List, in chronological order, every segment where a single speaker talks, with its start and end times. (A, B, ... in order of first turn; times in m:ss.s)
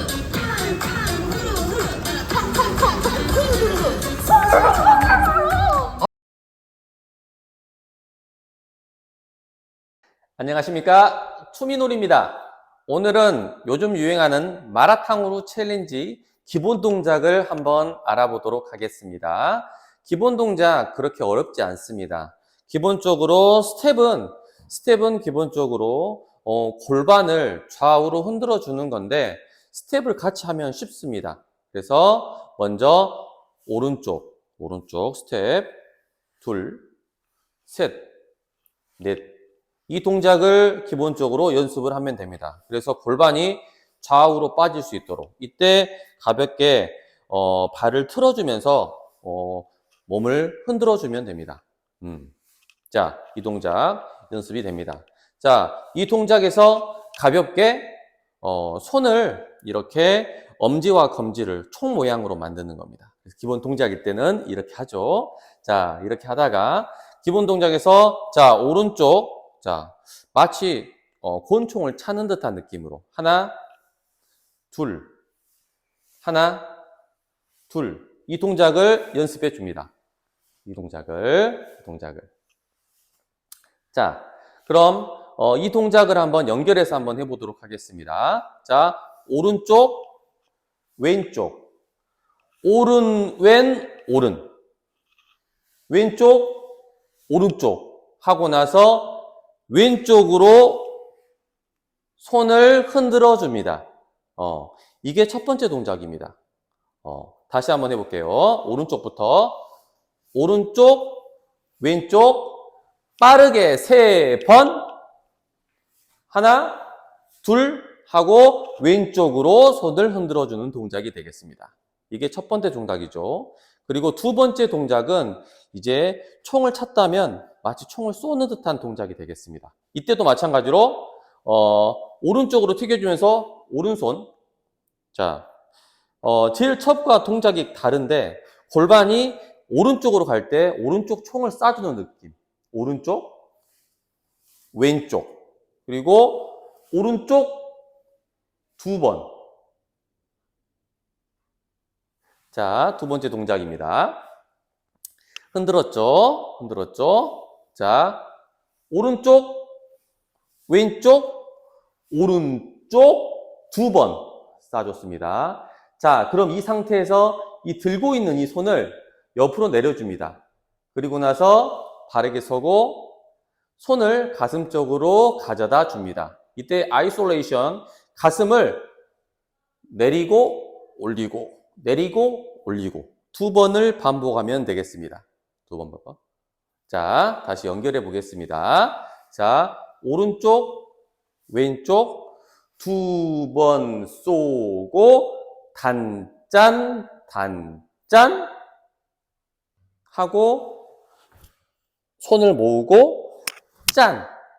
0:10.4-0:35.8 A
0:36.4-0:36.9 A
0:37.7-0:38.1 A
0:39.0-0:39.3 A
0:39.9-0:52.3 A
0:52.9-1:13.6 A
1:14.7-1:15.1 A
1:16.2-1:16.8 A
1:17.7-1:19.9 A
1:20.6-1:22.3 A
1:23.9-1:30.1 A
1:31.0-1:31.7 A
1:32.6-1:34.5 A
1:35.9-1:36.7 A
1:37.3-1:41.0 A
1:42.2-1:43.8 A
1:44.4-1:46.4 A
1:47.0-1:49.6 A
1:50.3-1:51.2 A
1:51.8-1:54.9 A
1:56.3-1:56.9 A
1:57.4-2:14.3 A
2:15.1-2:15.5 A
2:16.2-2:23.4 A
2:24.7-2:27.8 A
2:28.8-2:29.3 A
2:32.5-2:34.2 A
2:35.5-2:38.3 A
2:38.9-2:39.7 A
2:40.7-2:41.5 A
2:42.1-2:50.4 A
2:50.9-2:53.2 A
2:53.8-2:58.9 A
2:59.9-3:06.2 A
3:06.9-3:10.9 A
3:11.5-3:18.5 A
3:20.1-3:20.9 A
3:22.2-3:24.3 A